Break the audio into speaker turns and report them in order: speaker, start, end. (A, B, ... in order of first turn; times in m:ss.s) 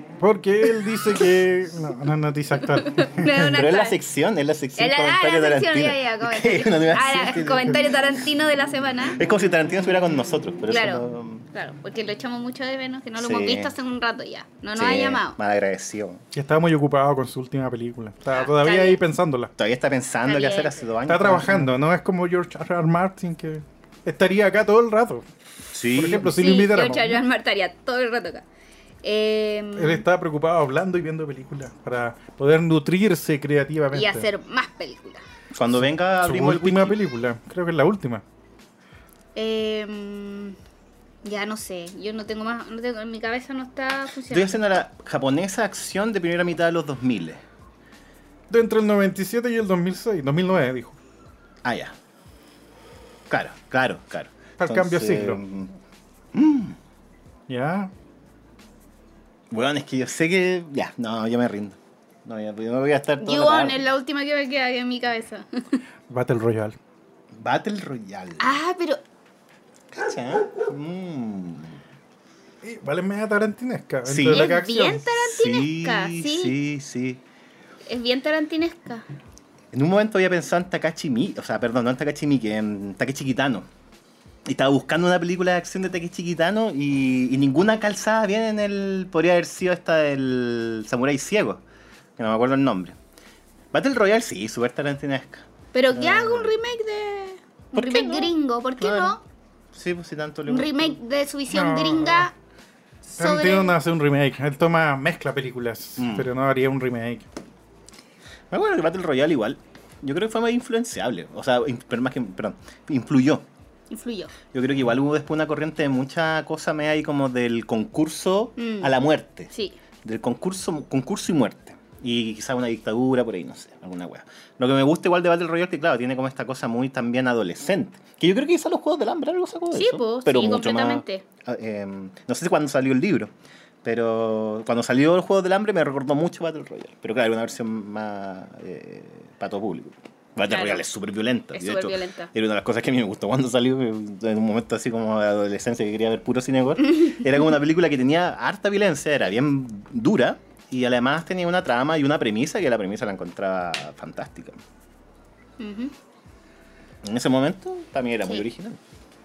0:00.2-0:03.4 A
0:02.7-0:04.0 B
0:03.3-0:08.0 C
0:04.8-0:09.2 B
0:09.1-0:11.5 C
0:10.7-0:15.4 B
0:13.2-0:13.7 C
0:14.8-0:16.2 C
0:16.3-0:19.5 A
0:18.3-0:19.0 B
0:19.6-0:21.7 C
0:20.2-0:20.8 B
0:21.1-0:25.3 A
0:25.7-0:26.3 C
0:25.9-0:27.2 A
0:26.2-0:28.4 B
0:29.0-0:30.0 B
0:29.8-0:34.3 A
0:33.9-0:35.2 B
0:35.5-0:37.0 C
0:36.2-0:38.2 A
0:39.4-0:40.6 B
0:41.2-0:44.6 B
0:44.3-0:47.4 C
0:48.5-0:51.0 A
0:51.6-0:52.0 C
0:53.3-0:55.8 C
0:54.6-0:55.4 A
0:56.3-0:56.8 C
0:57.5-0:57.9 A
0:59.5-1:03.9 C
1:03.2-1:05.8 B
1:06.1-1:06.8 A
1:07.3-1:08.6 C
1:08.4-1:09.0 B
1:09.9-1:11.8 C
1:12.6-1:15.1 A
1:14.0-1:14.6 C
1:14.2-1:16.6 B
1:15.2-1:17.2 C
1:17.9-1:19.1 B
1:19.7-1:23.7 C
1:24.5-1:31.6 C
1:32.2-1:33.0 C
1:33.7-1:36.6 C
1:35.7-1:39.2 B
1:37.8-1:39.2 C
1:39.7-1:41.0 C
1:40.5-1:42.3 B
1:41.5-1:42.3 A
1:43.1-1:43.8 B
1:43.2-1:47.3 A
1:46.0-1:46.3 C
1:48.5-1:53.5 C
1:53.9-1:54.3 B
1:54.5-1:59.5 C
1:58.6-1:58.9 B
2:00.0-2:13.3 C
2:09.7-2:11.2 B
2:13.8-2:34.6 C
2:20.5-2:20.8 B
2:21.5-2:22.3 B
2:35.6-2:35.9 B
2:37.0-2:38.8 C